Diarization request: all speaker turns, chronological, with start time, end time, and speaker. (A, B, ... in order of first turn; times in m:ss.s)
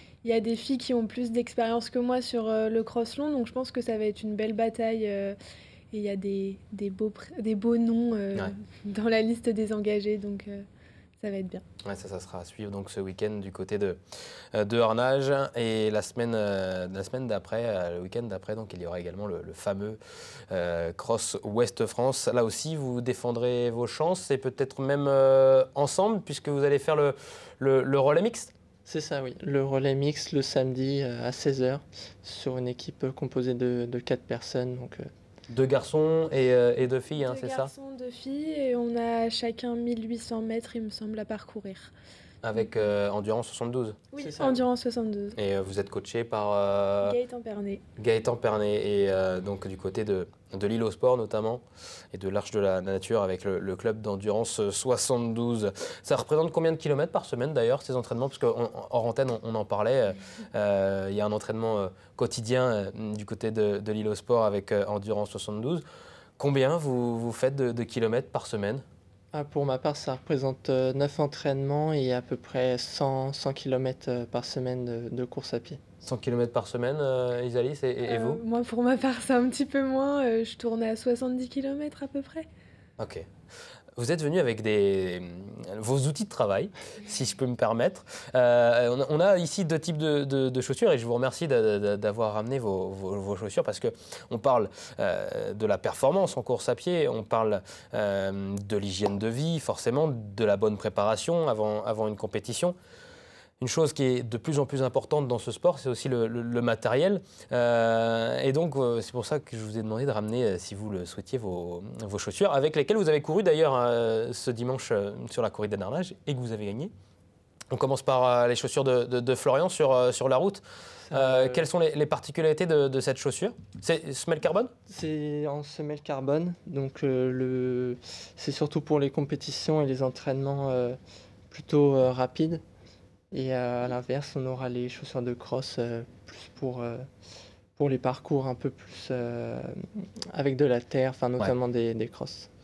0:00.2-0:05.4 A
0:05.9-0:10.6 A
0:11.2-0:11.6 A
0:11.8-0:14.0 B
0:14.5-0:20.0 B
0:20.5-0:28.5 B
0:28.8-0:35.1 C
0:35.5-0:37.7 B
0:37.2-0:41.9 A
0:42.4-0:44.0 B
0:44.1-0:45.4 A
0:44.2-0:44.6 C
0:45.4-0:47.2 B
0:47.0-0:47.8 A
0:48.0-1:05.8 B
1:06.4-1:08.8 B
1:09.3-1:15.8 C
1:16.0-1:18.4 B
1:18.0-1:22.5 A
1:23.0-1:23.2 B
1:24.0-1:42.7 B
1:43.6-1:56.9 B
1:57.7-2:04.7 B
2:01.1-2:01.7 C
2:04.9-2:11.0 C
2:11.5-2:12.6 C
2:13.3-2:17.0 C
2:17.8-2:22.5 C